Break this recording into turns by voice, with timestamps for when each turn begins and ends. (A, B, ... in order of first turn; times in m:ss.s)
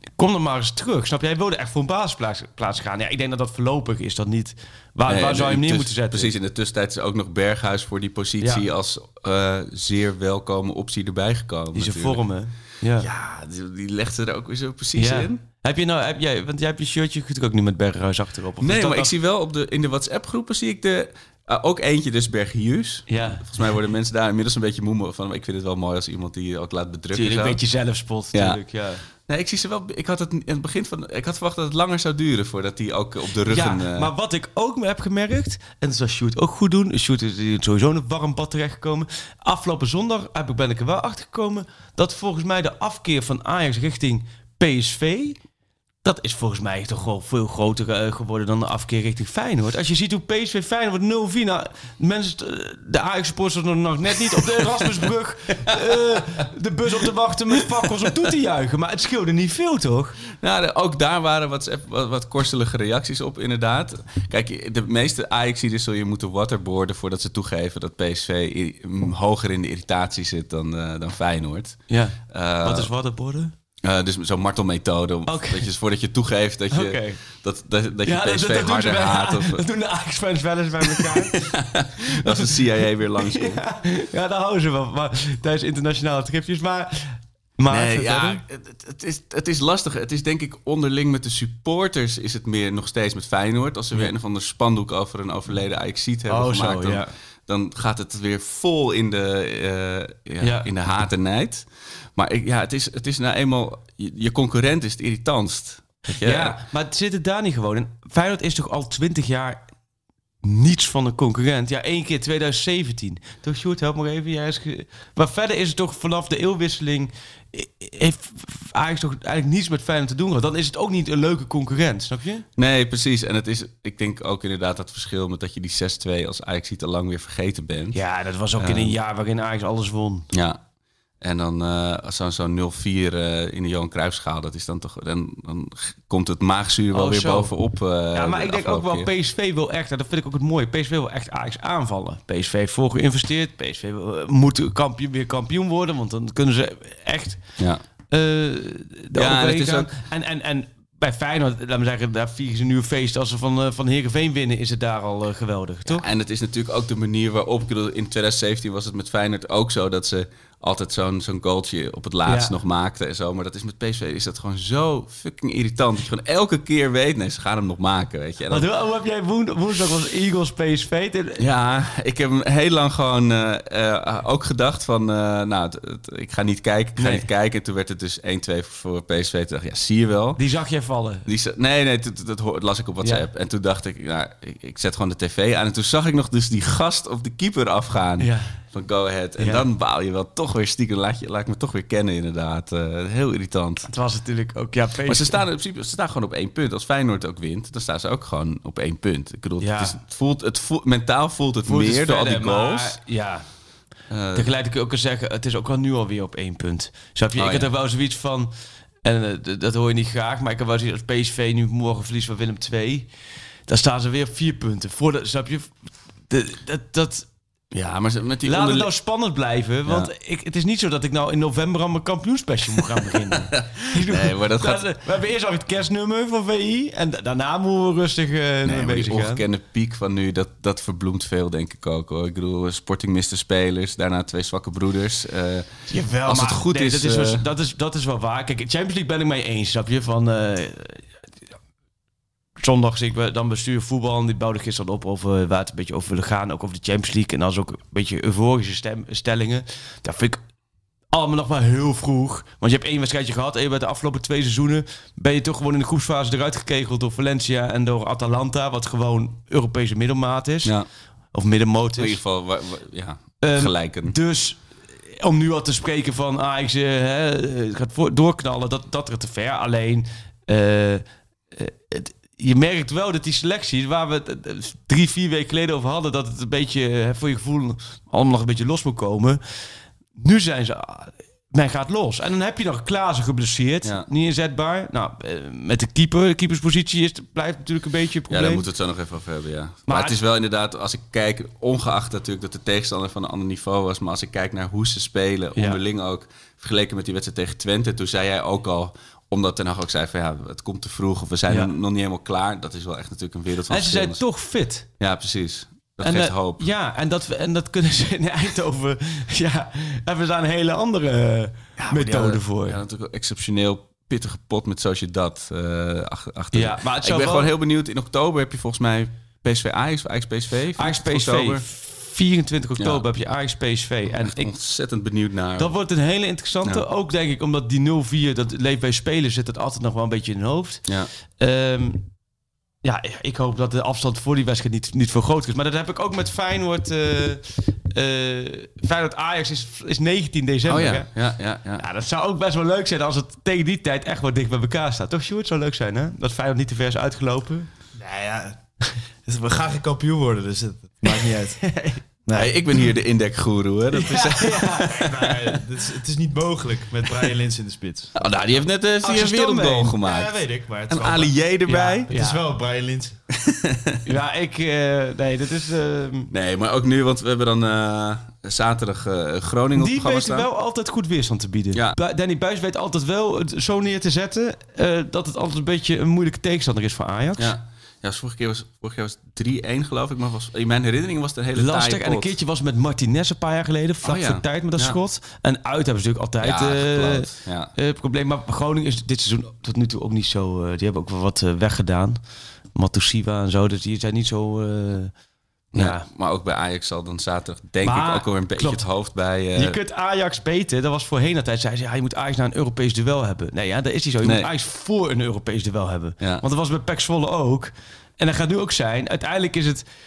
0:00.2-0:06.3 A
0:05.1-0:12.2 B
0:11.7-0:13.1 A
0:13.0-0:15.4 B
0:15.0-0:19.1 A
0:18.6-0:27.6 B
0:23.1-0:23.4 A
0:27.1-0:29.0 A
0:28.3-0:34.1 B
0:33.5-0:45.4 A
0:46.0-1:00.2 A
1:00.4-1:12.9 B
1:11.9-1:13.5 A
1:13.8-1:19.6 B
1:15.3-1:15.7 A
1:16.7-1:17.2 A
1:18.0-1:21.6 A
1:20.9-1:23.6 B
1:22.2-1:22.6 A
1:23.2-1:28.4 A
1:27.7-1:46.6 B
1:36.3-1:37.1 A
1:40.4-1:40.7 A
1:46.2-1:49.6 A
1:50.4-2:02.5 A
2:02.6-2:08.0 B
2:07.9-2:10.3 A
2:08.6-2:09.0 B
2:10.3-2:10.6 B
2:11.2-2:19.1 B
2:16.9-2:27.4 A
2:28.1-2:36.1 A
2:29.2-2:29.9 B
2:35.8-2:48.7 B
2:42.3-2:42.6 A
2:48.5-2:51.4 A
2:51.4-3:00.4 B
2:57.0-2:57.3 A
3:00.4-3:01.3 A
3:01.2-3:13.9 B
3:03.0-3:03.3 A
3:08.2-3:08.6 A
3:09.4-3:09.7 A
3:13.9-3:15.4 A
3:15.1-3:23.0 B
3:19.6-3:20.0 A
3:21.6-3:23.5 A
3:24.1-3:24.5 B
3:24.4-3:28.5 A
3:27.4-3:27.7 B
3:29.0-3:33.1 A
3:33.7-3:35.7 A
3:36.3-3:37.3 A
3:37.7-3:38.9 B
3:38.4-3:49.4 A
3:39.9-3:40.1 B
3:43.5-3:44.9 B
3:48.6-3:57.5 B
3:55.9-4:01.1 A
4:02.6-4:10.4 A
4:11.1-4:20.7 A
4:21.3-4:22.2 A
4:22.0-4:24.2 B
4:23.4-4:24.6 A
4:25.2-4:48.7 A
4:43.8-4:44.1 B
4:48.3-5:04.3 B
4:49.9-4:50.2 A
5:03.7-5:04.9 A
5:04.9-5:06.7 B
5:06.0-5:12.8 A
5:11.8-5:21.6 B
5:16.5-5:17.5 A
5:20.8-5:24.6 A
5:22.8-5:23.1 B
5:24.2-5:25.8 B
5:25.6-5:32.1 A
5:30.9-5:31.1 B
5:32.8-5:47.7 A
5:40.6-5:41.8 B
5:47.9-5:51.8 C
5:51.1-5:52.6 A
5:52.3-5:55.2 B
5:53.9-5:55.3 A
5:54.5-5:58.2 C
5:58.2-6:02.1 B
5:59.0-6:00.0 A
6:00.0-6:01.5 C
6:01.7-6:02.4 A
6:02.1-6:03.2 C
6:03.5-6:04.0 B
6:04.0-6:06.3 A
6:06.3-6:10.5 B
6:09.8-6:17.5 A
6:17.4-6:22.3 B
6:21.6-6:32.2 A
6:24.0-6:25.0 B
6:26.4-6:27.7 B
6:32.7-6:35.1 A
6:35.7-6:39.8 B
6:35.7-6:36.1 A
6:37.8-6:49.9 A
6:44.2-6:44.5 B